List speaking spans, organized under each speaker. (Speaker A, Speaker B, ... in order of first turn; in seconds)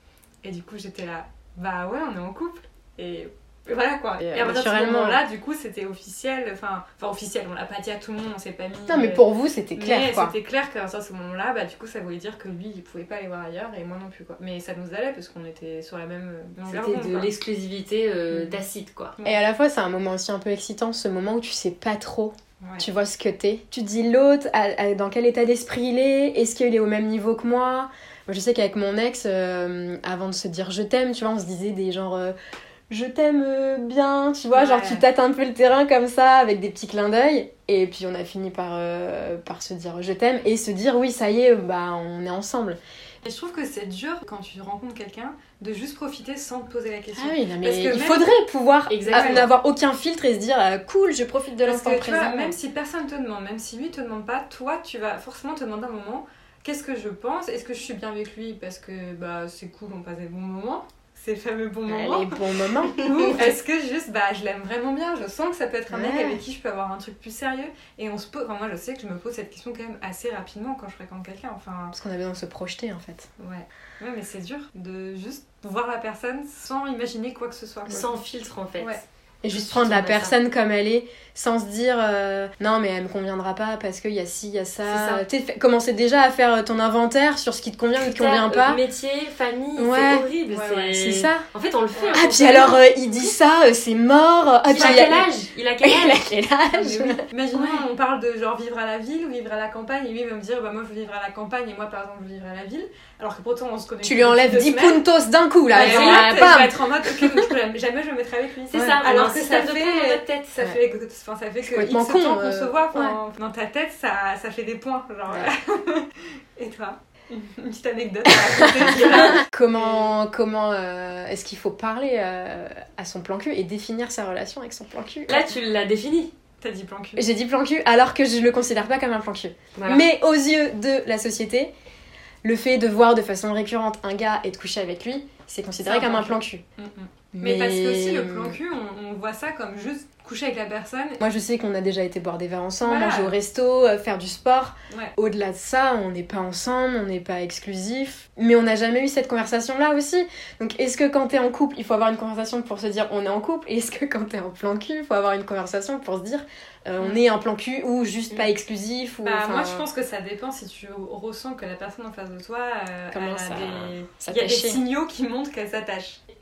Speaker A: 0.4-9.2, 9.8-17.3, 22.6-22.9, 34.5-35.0, 43.2-48.3, 49.1-49.5, 51.6-71.9, 73.4-78.1, 78.8-79.0, 90.5-90.9, 91.9-92.2, 94.7-95.1, 96.7-105.0, 105.7-120.1, 126.6-127.2, 135.8-141.2, 142.8-143.3, 159.2-166.2
Speaker B: 4.2-5.2, 8.9-10.3, 18.3-18.6, 19.2-32.3, 32.9-42.8, 47.1-52.6, 61.9-63.6, 65.9-66.4, 71.9-73.3, 79.4-88.8, 89.8-90.3, 90.9-91.5, 92.1-95.3, 95.8-97.8, 104.0-107.5, 108.7-109.0, 111.6-113.2, 118.3-125.5, 127.2-131.7, 132.4-136.6, 137.3-138.6, 141.2-159.8, 163.1-164.8
Speaker C: 16.7-19.1, 48.9-49.5, 77.9-79.0, 79.5-80.3, 84.8-85.2, 88.0-92.8, 94.7-96.2, 105.7-106.5, 108.7-110.6, 125.3-126.3, 129.8-130.0